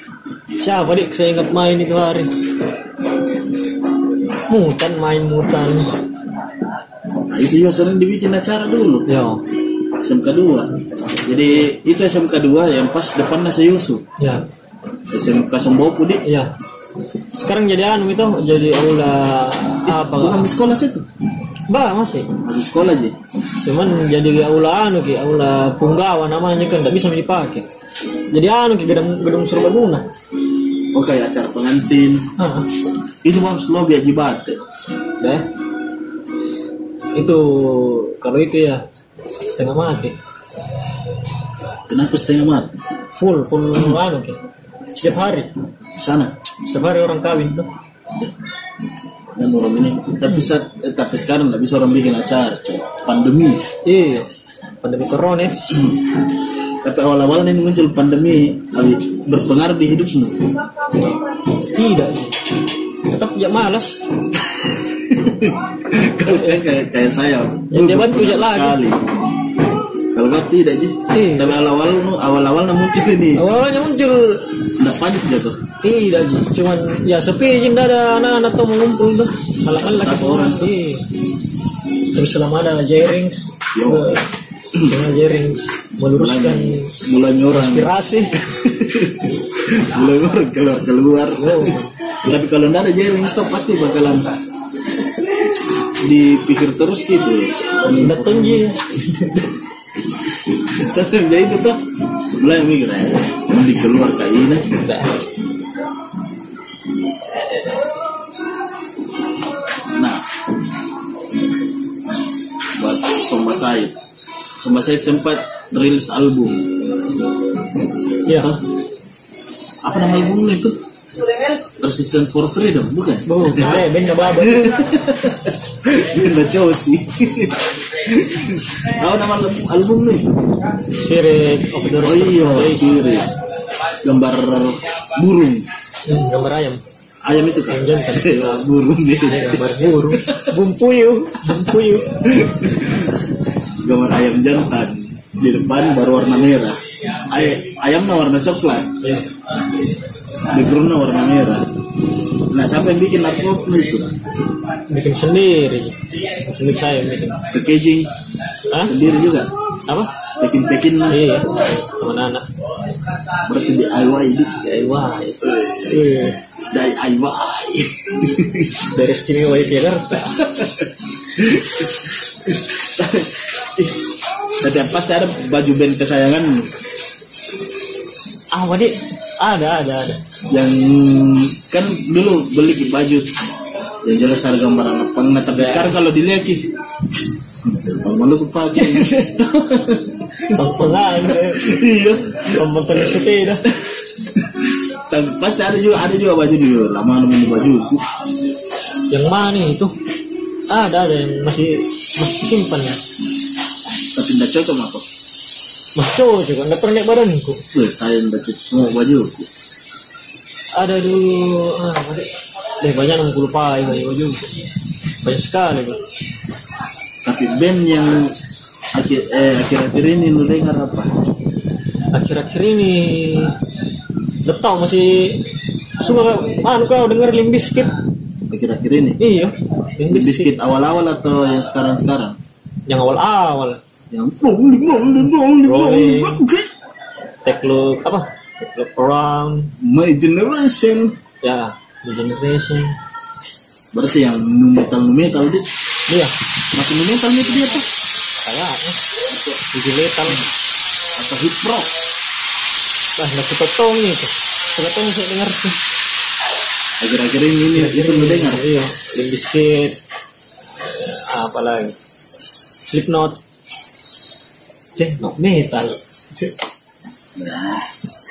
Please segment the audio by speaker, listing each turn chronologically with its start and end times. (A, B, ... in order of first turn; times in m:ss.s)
0:00.6-0:02.3 A
0:04.5-0:05.9 A
0:07.3-0:09.1 B
0:09.1-0:09.4 A
0:10.0-0:10.7 B
0:11.2-0:14.0 B
0:14.2-0:14.4 A
0:15.1-0:16.2 B
0:16.2-0:16.5 A
0:17.4-0:20.5 A
0:19.9-0:21.0 B
0:21.7-0:22.3 A
0:22.4-0:23.2 B
0:23.6-0:27.7 A
0:28.3-0:30.1 A
0:30.9-0:32.3 B
0:32.4-0:32.7 A
0:33.2-0:34.6 B
0:35.2-0:35.4 A
0:37.1-0:38.8 A
0:39.4-0:40.2 A
0:41.9-0:42.8 B
0:43.1-0:44.4 A
0:44.9-0:45.5 A
0:46.0-0:46.3 B
0:46.6-0:47.7 A
0:49.4-0:53.6 B
0:53.8-0:54.3 A
0:54.8-0:55.8 A
0:56.8-1:00.5 B
1:01.6-1:02.4 A
1:03.1-1:04.0 A
1:04.9-1:09.0 B
1:06.2-1:06.6 A
1:07.7-1:08.8 A
1:10.1-1:13.4 B
1:11.1-1:11.6 A
1:13.4-1:14.6 A
1:14.8-1:15.6 B
1:15.8-1:21.0 A
1:19.8-1:20.7 B
1:22.1-1:24.2 A
1:23.7-1:24.2 B
1:24.8-1:26.9 A
1:26.1-1:34.3 B
1:27.5-1:28.3 A
1:31.4-1:31.9 A
1:36.0-1:38.7 B
1:38.0-1:39.3 A
1:40.8-1:41.8 B
1:42.4-1:44.7 B
1:44.7-1:45.2 A
1:49.9-1:50.2 B
1:52.7-1:53.9 B
1:54.6-1:56.7 B
1:58.2-1:58.5 A
1:58.3-1:58.6 B
1:59.8-2:00.8 B
2:01.8-2:03.8 B
2:03.2-2:04.9 A
2:04.4-2:10.4 B
2:10.9-2:13.2 A
2:12.0-2:13.3 B
2:14.0-2:15.7 B
2:16.0-2:16.8 A
2:17.2-2:20.6 B
2:17.7-2:18.6 A
2:19.2-2:22.1 A
2:22.2-2:23.2 B
2:23.8-2:28.9 B
2:29.0-2:29.3 A
2:30.5-2:31.7 B
2:32.5-2:34.1 B
2:34.9-2:37.4 A
2:37.5-2:38.1 B
2:38.8-2:39.5 B
2:40.4-2:41.2 B
2:41.1-2:42.5 A
2:43.4-2:44.6 B
2:44.6-2:46.4 A
2:45.4-2:46.0 B
2:46.7-2:48.8 B
2:48.9-2:50.4 A
2:50.5-2:50.8 B
2:51.3-2:51.9 B
2:52.5-2:54.0 B
2:54.6-2:56.7 B
2:58.5-3:00.2 A
3:00.5-3:03.4 B
3:04.0-3:06.7 B
3:05.5-3:06.0 A
3:07.5-3:13.3 B
3:08.7-3:09.4 A
3:10.5-3:13.6 A
3:13.8-3:18.0 B
3:19.1-3:19.9 A
3:20.7-3:23.0 A
3:24.1-3:25.0 B
3:25.9-3:27.6 A
3:27.7-3:29.5 B
3:30.7-3:34.6 A
3:35.2-3:36.0 A
3:37.2-3:38.3 B
3:38.9-3:41.1 B
3:42.1-3:43.6 A
3:44.4-3:48.0 A
3:48.5-3:49.2 B
3:49.2-3:50.5 A
3:50.1-3:52.4 B
3:52.8-3:53.8 A
3:54.1-3:56.7 B
3:55.6-3:56.4 A
3:57.4-3:59.7 A
3:59.8-4:01.2 B
4:01.4-4:03.0 A
4:03.9-4:05.7 B
4:06.1-4:06.3 A
4:06.7-4:07.8 B
4:08.4-4:09.0 A
4:09.3-4:09.6 B
4:09.7-4:10.4 A
4:11.2-4:11.9 B
4:13.2-4:15.8 A
4:17.0-4:18.6 B
4:17.7-4:20.0 A
4:20.8-4:22.0 A
4:22.8-4:23.4 A
4:25.0-4:26.5 A
4:27.4-4:27.8 B